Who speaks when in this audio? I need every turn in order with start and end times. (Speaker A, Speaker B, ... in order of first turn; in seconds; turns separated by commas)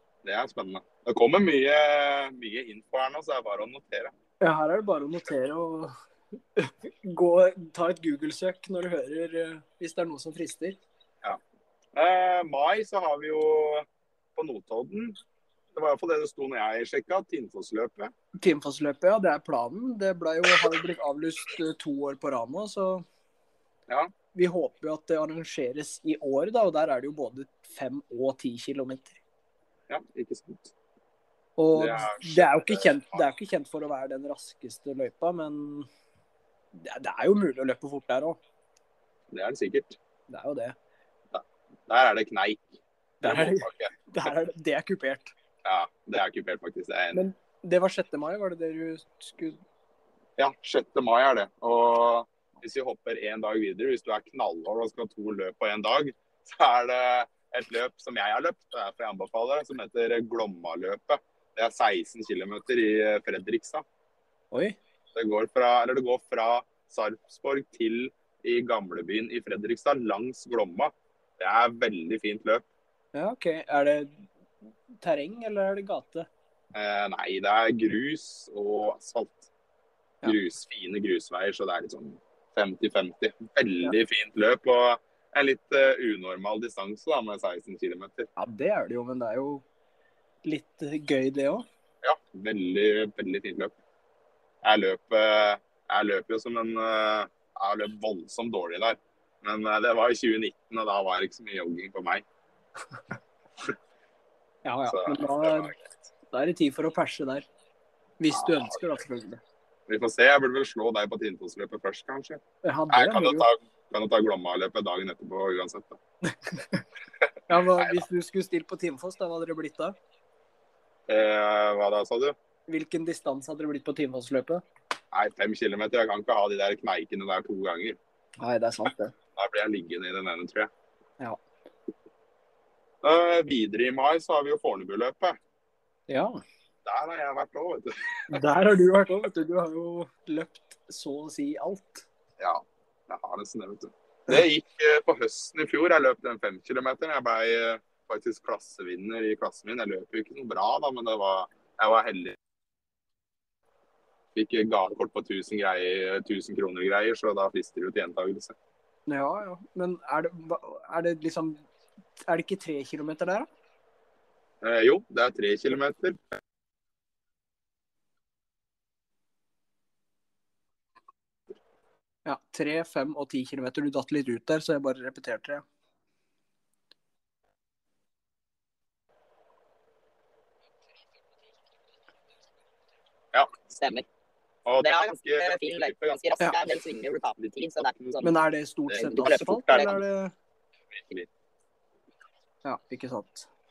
Speaker A: 0.2-4.1, Speaker B: 4.4-5.9, Speaker B: 6.5-10.8, Speaker A: 11.9-15.2, Speaker A: 15.7-18.1, Speaker B: 18.4-23.0, Speaker B: 24.3-29.2, Speaker A: 29.9-30.7, Speaker B: 31.6-35.9, Speaker A: 31.7-33.2, Speaker B: 36.7-38.4, Speaker A: 39.3-40.0, Speaker B: 40.3-40.7, Speaker A: 41.3-43.9, Speaker B: 43.2-45.3, Speaker A: 45.6-47.2, Speaker B: 47.1-49.6, Speaker A: 50.4-63.8, Speaker B: 64.5-64.8, Speaker A: 65.1-72.6, Speaker B: 73.1-76.3, Speaker A: 76.7-79.5, Speaker A: 80.2-88.3, Speaker B: 88.4-89.6, Speaker B: 90.4-91.6, Speaker A: 92.0-93.7, Speaker A: 94.6-102.2, Speaker B: 104.6-105.8, Speaker A: 104.9-105.8, Speaker B: 106.3-107.4, Speaker B: 108.2-109.4, Speaker A: 108.3-108.8, Speaker A: 109.9-116.0, Speaker B: 112.6-113.5, Speaker B: 116.3-116.8, Speaker B: 117.5-119.9, Speaker A: 117.8-118.0, Speaker A: 121.1-122.3, Speaker B: 122.7-124.6, Speaker A: 125.1-128.0, Speaker B: 128.4-129.1, Speaker A: 129.3-130.7, Speaker A: 133.0-135.4, Speaker B: 136.1-136.4, Speaker A: 136.8-138.4, Speaker B: 138.3-142.1, Speaker A: 142.4-152.4, Speaker A: 154.3-158.5, Speaker B: 159.1-161.6, Speaker B: 162.3-163.5, Speaker A: 164.6-166.2, Speaker B: 172.2-175.6, Speaker C: 183.7-184.1, Speaker A: 184.7-186.2, Speaker C: 184.8-188.3, Speaker B: 188.2-190.3, Speaker C: 189.0-189.9, Speaker A: 189.2-189.8, Speaker A: 190.9-191.3, Speaker B: 192.6-193.5